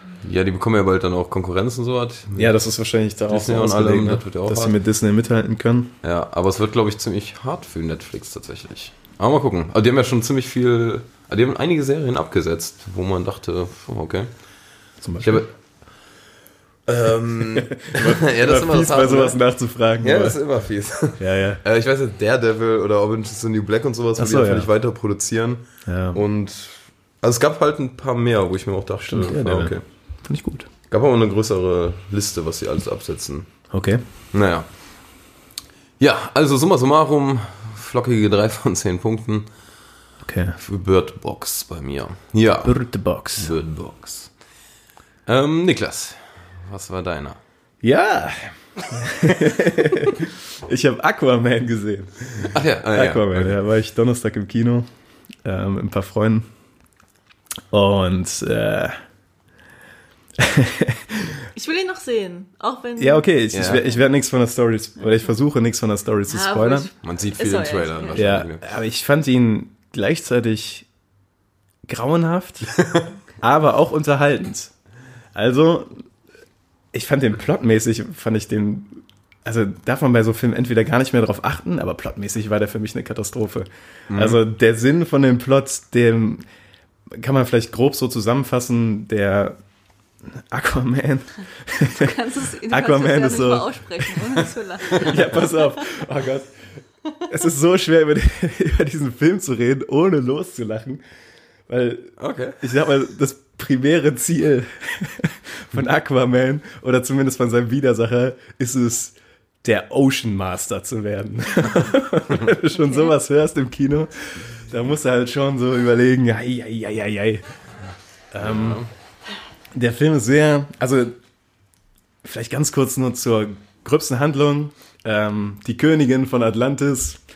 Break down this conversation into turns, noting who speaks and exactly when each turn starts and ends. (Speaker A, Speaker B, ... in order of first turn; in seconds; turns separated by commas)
Speaker A: 0.2-2.5, Speaker B: 2.4-5.9, Speaker A: 3.3-4.8, Speaker A: 6.0-14.3, Speaker B: 15.0-15.4, Speaker A: 15.2-15.5, Speaker A: 16.9-19.4, Speaker B: 17.6-20.4, Speaker A: 20.0-29.8, Speaker B: 21.2-21.6, Speaker B: 24.2-24.7, Speaker B: 25.9-26.2, Speaker B: 29.0-30.7, Speaker A: 30.9-33.5, Speaker B: 33.7-34.0, Speaker A: 34.3-34.7, Speaker A: 36.0-39.5, Speaker B: 40.2-40.6, Speaker A: 40.6-42.8, Speaker B: 42.6-43.5, Speaker A: 43.4-44.3, Speaker A: 45.3-47.4, Speaker B: 47.8-54.9, Speaker A: 52.5-53.6, Speaker B: 55.4-56.5, Speaker B: 57.7-59.0, Speaker B: 60.4-61.5, Speaker C: 61.5-64.0, Speaker B: 63.0-66.9, Speaker A: 63.5-63.8, Speaker C: 66.3-68.2, Speaker A: 67.0-68.7, Speaker B: 68.1-70.9, Speaker B: 71.9-72.8, Speaker A: 72.7-73.1, Speaker B: 73.4-74.7, Speaker B: 75.3-76.0, Speaker B: 76.9-86.4, Speaker A: 84.1-84.4, Speaker B: 87.1-89.6, Speaker B: 90.3-96.5, Speaker C: 91.9-95.8, Speaker B: 97.3-101.0, Speaker B: 101.7-117.5, Speaker A: 102.2-102.6, Speaker C: 112.8-113.1, Speaker B: 118.3-118.8, Speaker A: 118.4-118.9, Speaker B: 119.7-121.2, Speaker B: 122.2-127.2